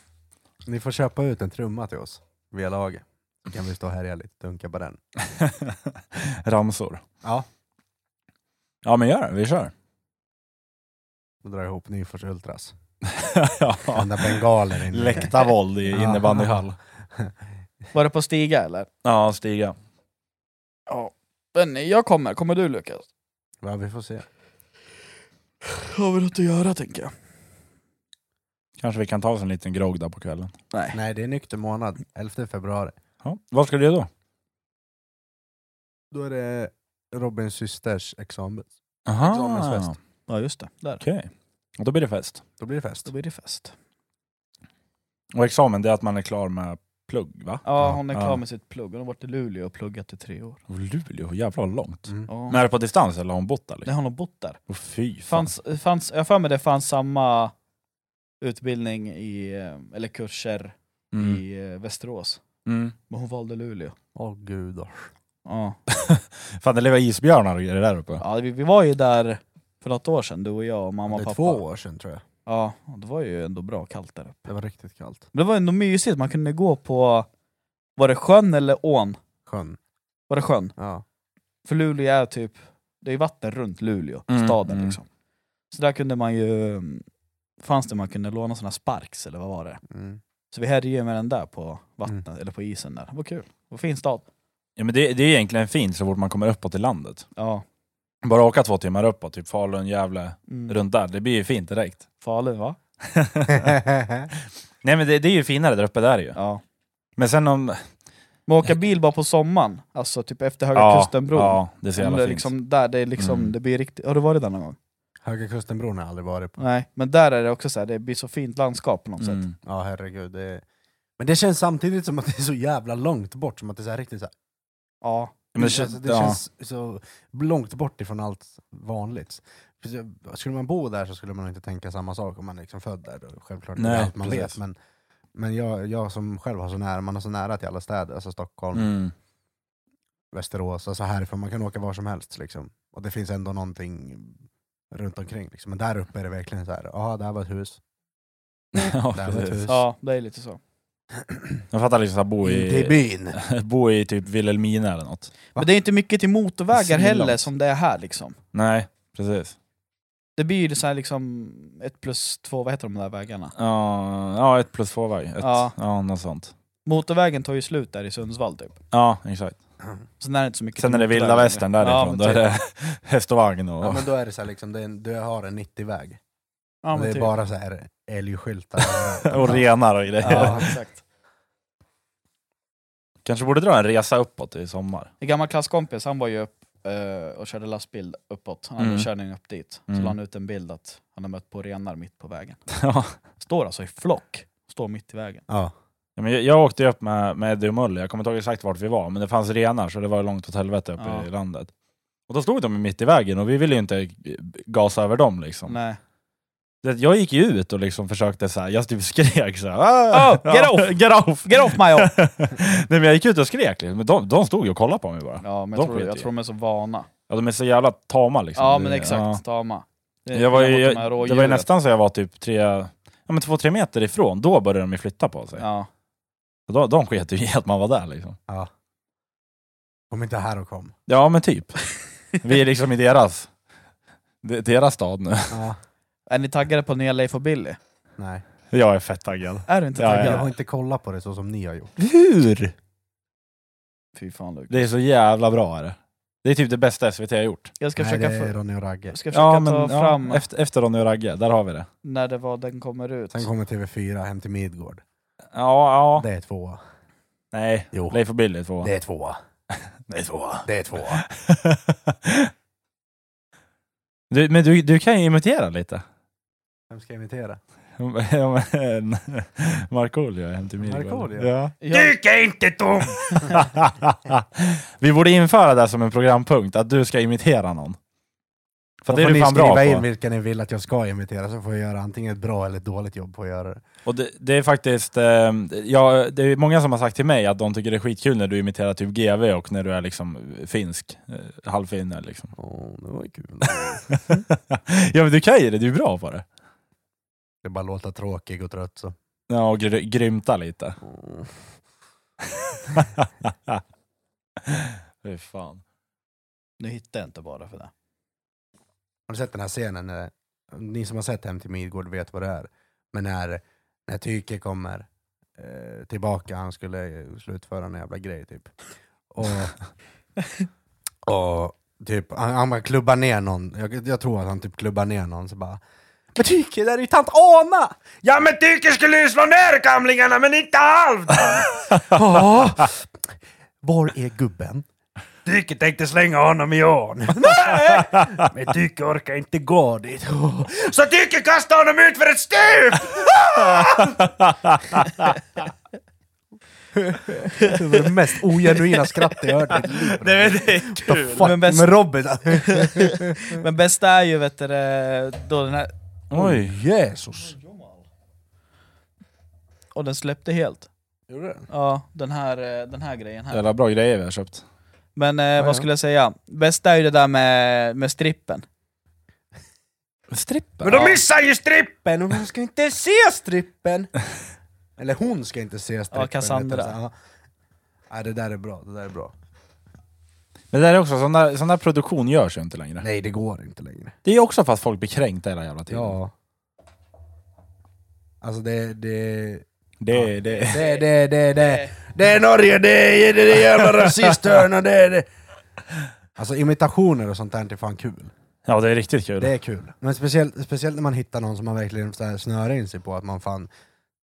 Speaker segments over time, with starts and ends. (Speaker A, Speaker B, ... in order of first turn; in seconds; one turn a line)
Speaker A: 0.7-5.0
Speaker B: 5.2-7.0
Speaker B: 8.8-9.7
Speaker A: 11.4-12.7
Speaker B: 13.1-16.7
Speaker A: 13.9-16.6
Speaker C: 17.9-18.9
Speaker B: 19.0-19.7
Speaker C: 20.9-23.1
Speaker A: 23.6-24.2
Speaker C: 25.6-27.1
Speaker B: 28.8-30.5
Speaker A: 30.9-32.9
Speaker B: 33.2-34.1
Speaker A: 36.1-39.9
Speaker B: 39.1-39.9
Speaker C: 40.3-41.0
Speaker B: 41.0-42.4
Speaker A: 42.6-43.1
Speaker C: 43.0-43.7
Speaker B: 45.3-48.4
Speaker C: 47.6-50.6
Speaker B: 50.7-53.9
Speaker C: 52.3-52.6
Speaker C: 53.9-54.6
Speaker B: 54.7-55.5
Speaker C: 55.3-57.5
Speaker C: 58.4-62.4
Speaker B: 61.1-61.4
Speaker B: 62.6-62.9
Speaker C: 63.1-63.9
Speaker A: 64.1-65.1
Speaker C: 65.5-65.8
Speaker B: 65.9-68.2
Speaker C: 68.2-71.6
Speaker A: 71.1-72.2
Speaker C: 72.5-74.4
Speaker A: 74.5-75.2
Speaker C: 75.3-77.3
Speaker C: 78.0-79.2
Speaker A: 79.5-79.8
Speaker C: 80.3-80.7
Speaker A: 80.8-81.0
Speaker C: 81.7-85.0
Speaker B: 84.3-85.0
Speaker C: 85.7-87.0
Speaker C: 87.6-89.8
Speaker A: 89.9-90.2
Speaker C: 90.5-94.2
Speaker B: 94.8-97.2
Speaker C: 97.4-97.6
Speaker B: 98.2-102.0
Speaker C: 100.5-100.8
Speaker C: 102.2-102.8
Speaker B: 103.0-103.8
Speaker A: 103.5-104.3
Speaker B: 104.8-106.4
Speaker C: 106.3-106.6
Speaker B: 107.2-107.8
Speaker C: 108.5-114.8
Speaker B: 110.7-112.5
Speaker B: 113.2-113.5
Speaker A: 115.2-116.6
Speaker C: 116.6-119.4
Speaker B: 119.2-119.5
Speaker A: 119.6-120.6
Speaker A: 121.2-124.3
Speaker C: 125.0-125.3
Speaker B: 125.5-126.4
Speaker A: 125.6-134.7
Speaker B: 133.8-134.5
Speaker A: 135.3-138.9
Speaker B: 138.7-139.1
Speaker A: 140.3-147.8
Speaker B: 148.7-149.6
Speaker A: 149.1-149.8
Speaker C: 149.7-150.6
Speaker A: 151.2-151.6
Speaker B: 151.7-155.3
Speaker A: 152.4-153.4
Speaker C: 155.5-158.4
Speaker B: 156.7-157.5
Speaker B: 158.5-159.5
Speaker C: 160.4-163.5
Speaker B: 163.6-166.5
Speaker C: 165.4-165.7
Speaker C: 166.8-168.8
Speaker B: 168.9-169.6
Speaker C: 170.2-172.5
Speaker B: 170.8-174.0
Speaker A: 173.8-176.2
Speaker C: 176.8-177.3
Speaker A: 176.9-179.7
Speaker B: 178.9-180.7
Speaker C: 180.2-181.0
Speaker A: 180.3-180.7
Speaker B: 183.2-185.1
Speaker C: 185.2-192.6
Speaker B: 188.8-189.1
Speaker B: 189.9-190.1
Speaker B: 192.7-193.1
Speaker C: 193.4-195.4
Speaker B: 196.2-201.7
Speaker C: 201.0-201.3
Speaker B: 202.3-205.8
Speaker C: 205.7-206.0
Speaker B: 206.8-216.3
Speaker C: 210.1-212.1
Speaker C: 215.4-217.1
Speaker B: 217.3-219.4
Speaker C: 218.6-221.7
Speaker B: 220.3-225.6
Speaker C: 225.6-225.9
Speaker B: 226.7-228.4
Speaker A: 230.1-230.9
Speaker B: 231.1-231.8
Speaker B: 232.3-233.5
Speaker B: 234.4-235.6
Speaker A: 235.5-235.8
Speaker C: 236.3-237.8
Speaker A: 238.2-238.4
Speaker B: 238.7-240.4
Speaker C: 239.7-240.5
Speaker A: 240.1-241.9
Speaker B: 242.0-242.7
Speaker C: 244.2-244.9
Speaker B: 244.7-247.7
Speaker C: 247.8-248.6
Speaker A: 248.0-249.1
Speaker C: 249.1-250.4
Speaker B: 249.3-251.9
Speaker C: 252.0-253.5
Speaker A: 253.3-255.0
Speaker B: 255.5-256.2
Speaker A: 256.2-256.8
Speaker B: 257.5-258.9
Speaker A: 257.9-258.2
Speaker A: 258.8-259.4
Speaker B: 260.1-262.5
Speaker A: 260.6-261.2
Speaker B: 264.3-266.0
Speaker A: 266.9-267.6
Speaker B: 268.0-271.8
Speaker A: 270.8-273.6
Speaker C: 271.8-272.2
Speaker B: 273.3-277.9
Speaker B: 279.0-280.0
Speaker A: 279.1-283.8
Speaker B: 284.1-292.5
Speaker A: 292.6-294.4
Speaker B: 294.1-296.4
Speaker A: 297.6-299.1
Speaker B: 299.5-301.0
Speaker A: 301.0-301.6
Speaker B: 302.6-303.8
Speaker B: 304.6-305.8
Speaker C: 306.8-307.9
Speaker A: 309.3-318.8
Speaker A: 319.3-319.7
Speaker A: 321.2-325.8
Speaker A: 326.3-334.9
Speaker A: 335.4-344.2
Speaker B: 337.9-338.4
Speaker B: 343.7-345.4
Speaker A: 346.9-353.6
Speaker B: 349.7-351.6
Speaker C: 351.4-352.0
Speaker C: 352.5-355.9
Speaker B: 356.3-356.7
Speaker A: 356.3-357.6
Speaker C: 357.4-358.0
Speaker C: 359.9-360.9
Speaker A: 361.3-361.7
Speaker C: 361.7-363.6
Speaker B: 363.5-364.6
Speaker C: 365.1-368.6
Speaker A: 365.6-365.9
Speaker B: 370.3-371.1
Speaker A: 370.8-374.1
Speaker C: 370.9-371.2
Speaker A: 375.0-377.1
Speaker C: 376.1-376.9
Speaker A: 378.1-379.3
Speaker B: 380.7-383.1
Speaker A: 383.0-384.1
Speaker B: 384.2-386.1
Speaker A: 385.9-386.3
Speaker A: 388.4-395.3
Speaker B: 390.0-390.8
Speaker C: 390.4-391.0
Speaker C: 391.6-391.9
Speaker A: 396.4-398.3
Speaker B: 398.6-399.5
Speaker A: 399.4-403.7